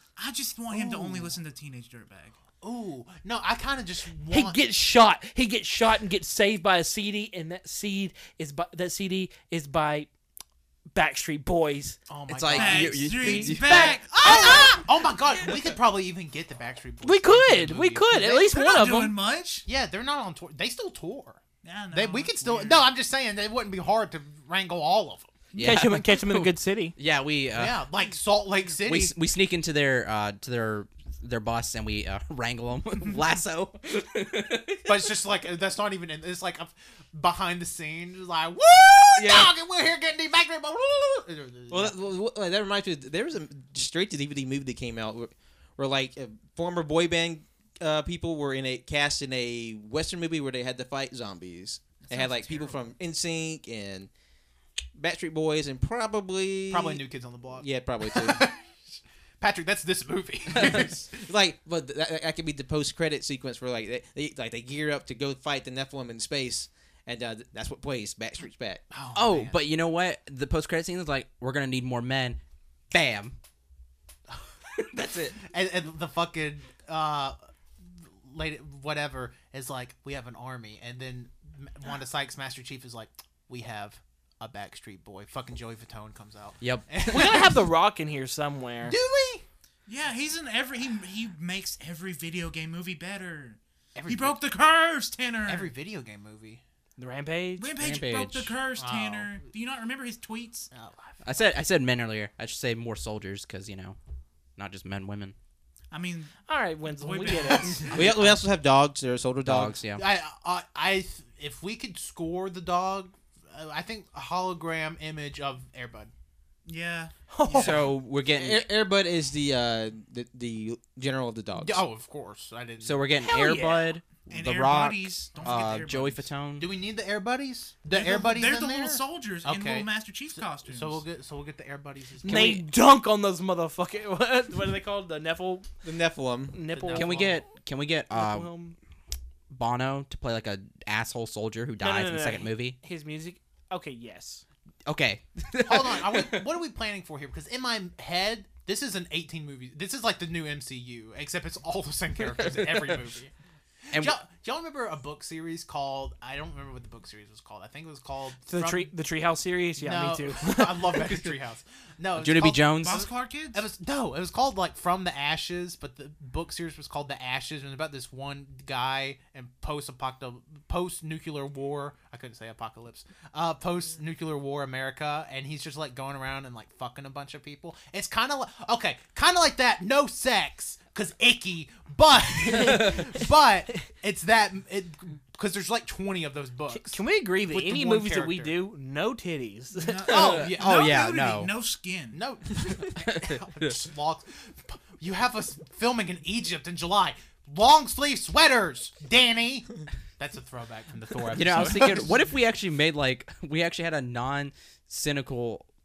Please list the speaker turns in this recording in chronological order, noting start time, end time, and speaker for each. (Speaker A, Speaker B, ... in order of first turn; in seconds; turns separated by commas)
Speaker A: 0.1-2.4, Speaker B: 0.7-1.4, Speaker B: 2.6-4.6, Speaker C: 4.3-10.1, Speaker C: 10.9-12.0, Speaker B: 12.1-13.4, Speaker D: 12.3-14.6, Speaker A: 12.5-14.9, Speaker C: 13.1-14.8, Speaker B: 14.2-18.4, Speaker C: 17.0-19.2, Speaker A: 18.3-19.7, Speaker B: 19.6-25.3, Speaker A: 21.6-22.9, Speaker D: 25.5-27.8, Speaker C: 25.6-26.9, Speaker B: 27.5-29.1, Speaker D: 28.8-35.1, Speaker B: 34.9-42.0, Speaker D: 39.1-39.5, Speaker E: 41.7-54.1, Speaker A: 52.0-52.8, Speaker E: 54.9-57.0, Speaker B: 56.7-58.7, Speaker E: 57.6-58.4, Speaker B: 59.4-61.2, Speaker E: 61.0-68.8, Speaker B: 68.9-69.6, Speaker D: 69.1-72.4, Speaker D: 72.9-73.4, Speaker D: 74.8-75.4, Speaker B: 75.4-87.6, Speaker D: 86.6-87.3, Speaker C: 87.0-89.0, Speaker B: 88.8-89.4, Speaker A: 89.9-95.7, Speaker B: 93.9-94.4, Speaker B: 95.5-96.6, Speaker C: 97.0-97.7, Speaker A: 97.6-100.7, Speaker D: 97.8-98.5, Speaker B: 98.7-99.4, Speaker B: 100.7-101.2, Speaker D: 101.2-104.0, Speaker D: 104.6-105.3, Speaker A: 105.9-106.3, Speaker C: 106.5-108.1, Speaker A: 106.9-108.2, Speaker E: 107.9-109.8, Speaker D: 109.4-110.0, Speaker B: 109.9-116.1, Speaker A: 116.7-117.8, Speaker C: 117.3-117.8, Speaker D: 117.5-118.7, Speaker E: 118.3-121.8, Speaker B: 121.5-123.0, Speaker D: 122.8-126.7, Speaker C: 123.2-123.9, Speaker A: 124.3-126.3, Speaker B: 126.6-129.9, Speaker A: 127.9-131.0, Speaker B: 130.6-132.6, Speaker C: 132.2-135.7, Speaker D: 132.2-132.6, Speaker E: 135.8-136.6, Speaker C: 136.5-137.3, Speaker B: 136.7-137.4, Speaker D: 136.9-138.5, Speaker C: 138.1-138.7, Speaker D: 139.5-142.8, Speaker C: 141.8-144.4, Speaker D: 144.9-146.5, Speaker B: 145.6-153.3, Speaker D: 152.3-153.0, Speaker D: 153.9-154.2, Speaker B: 153.9-158.9, Speaker C: 158.5-161.1, Speaker B: 159.8-188.5, Speaker D: 162.2-163.1, Speaker A: 162.8-163.6, Speaker C: 182.4-182.9, Speaker C: 186.7-190.1, Speaker A: 189.8-192.2, Speaker B: 190.1-191.0, Speaker D: 190.1-191.5, Speaker B: 192.1-202.3, Speaker D: 192.8-193.7, Speaker D: 201.3-205.7